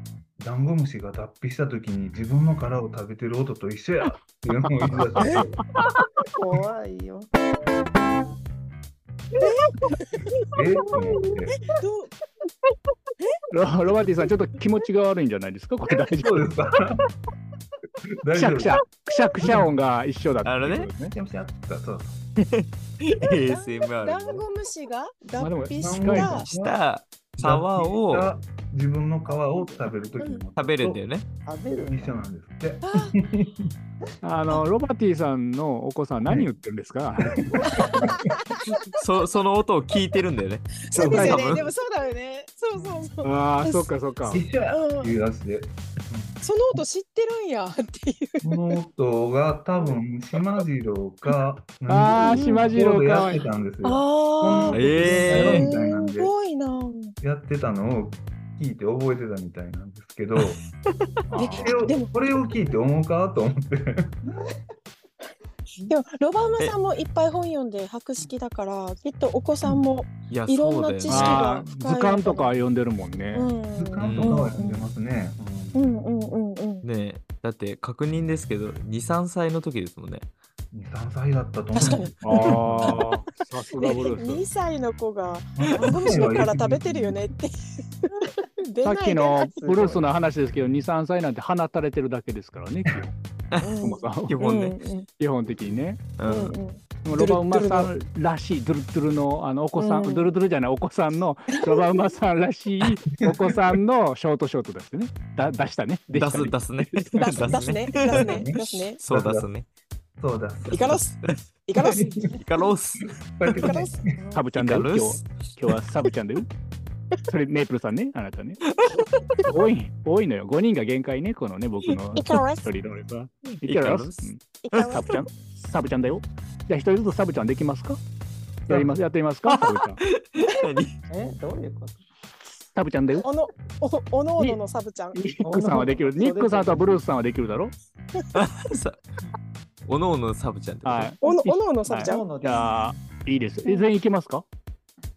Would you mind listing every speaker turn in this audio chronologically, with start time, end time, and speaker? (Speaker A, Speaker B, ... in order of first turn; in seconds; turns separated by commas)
Speaker A: 0.4-5.6, Speaker B: 5.1-5.8, Speaker C: 6.3-7.3, Speaker D: 9.4-10.5, Speaker A: 10.5-11.6, Speaker D: 11.6-12.1, Speaker B: 13.5-16.5, Speaker A: 16.2-17.0, Speaker A: 18.2-18.8, Speaker B: 18.4-21.1, Speaker E: 20.4-20.9, Speaker A: 21.1-22.2, Speaker E: 22.4-24.4, Speaker D: 23.5-26.4, Speaker B: 25.4-26.4, Speaker A: 25.8-26.8, Speaker E: 26.4-28.3, Speaker A: 27.4-31.0, Speaker C: 29.3-29.8, Speaker E: 30.6-31.2, Speaker C: 31.4-32.2, Speaker A: 31.9-33.7, Speaker D: 32.8-33.1, Speaker B: 34.2-37.4, Speaker A: 37.2-38.3, Speaker D: 37.7-38.7, Speaker E: 39.0-41.6, Speaker D: 40.9-43.9, Speaker A: 40.9-41.7, Speaker B: 43.2-44.4, Speaker A: 44.3-46.8, Speaker D: 44.7-45.1, Speaker D: 46.4-48.5, Speaker A: 48.4-56.3, Speaker B: 51.9-53.4, Speaker D: 52.1-52.7, Speaker D: 53.8-57.1, Speaker E: 54.7-55.7, Speaker A: 57.2-60.6, Speaker B: 61.3-61.8, Speaker A: 61.3-64.2, Speaker D: 61.4-62.1, Speaker C: 64.3-64.5, Speaker D: 65.8-72.5, Speaker E: 70.3-71.5, Speaker B: 71.1-73.5, Speaker D: 73.3-74.9, Speaker A: 73.8-76.0, Speaker E: 74.0-74.4, Speaker D: 75.7-76.8, Speaker E: 76.8-80.3, Speaker A: 80.7-83.0, Speaker D: 81.7-83.0, Speaker B: 82.2-84.5, Speaker D: 83.8-89.6, Speaker A: 85.6-87.2, Speaker B: 88.8-93.1, Speaker C: 89.7-90.0, Speaker D: 93.6-95.1, Speaker B: 93.8-94.4, Speaker E: 94.3-94.8, Speaker B: 95.2-96.0, Speaker E: 96.2-96.6, Speaker D: 96.3-97.9, Speaker B: 97.0-107.5, Speaker D: 99.8-100.3, Speaker D: 101.6-101.8, Speaker E: 106.1-109.7, Speaker D: 107.2-109.0, Speaker A: 108.1-109.5, Speaker A: 110.2-111.0, Speaker D: 110.7-112.3, Speaker A: 111.8-112.1, Speaker E: 112.4-113.7, Speaker A: 113.4-114.2, Speaker D: 113.6-114.4, Speaker B: 114.3-116.5, Speaker E: 114.6-115.3, Speaker B: 117.3-118.6, Speaker E: 118.7-119.0, Speaker B: 119.4-128.0, Speaker D: 122.1-122.7, Speaker E: 123.6-125.0, Speaker D: 124.6-125.2, Speaker B: 128.7-130.0, Speaker E: 129.5-131.0, Speaker C: 131.1-132.0, Speaker B: 132.7-133.2, Speaker D: 133.2-135.2, Speaker B: 135.1-137.7, Speaker C: 135.4-137.0, Speaker E: 138.3-139.0, Speaker E: 139.9-141.1, Speaker B: 140.8-144.4, Speaker D: 141.2-142.2, Speaker C: 141.9-142.9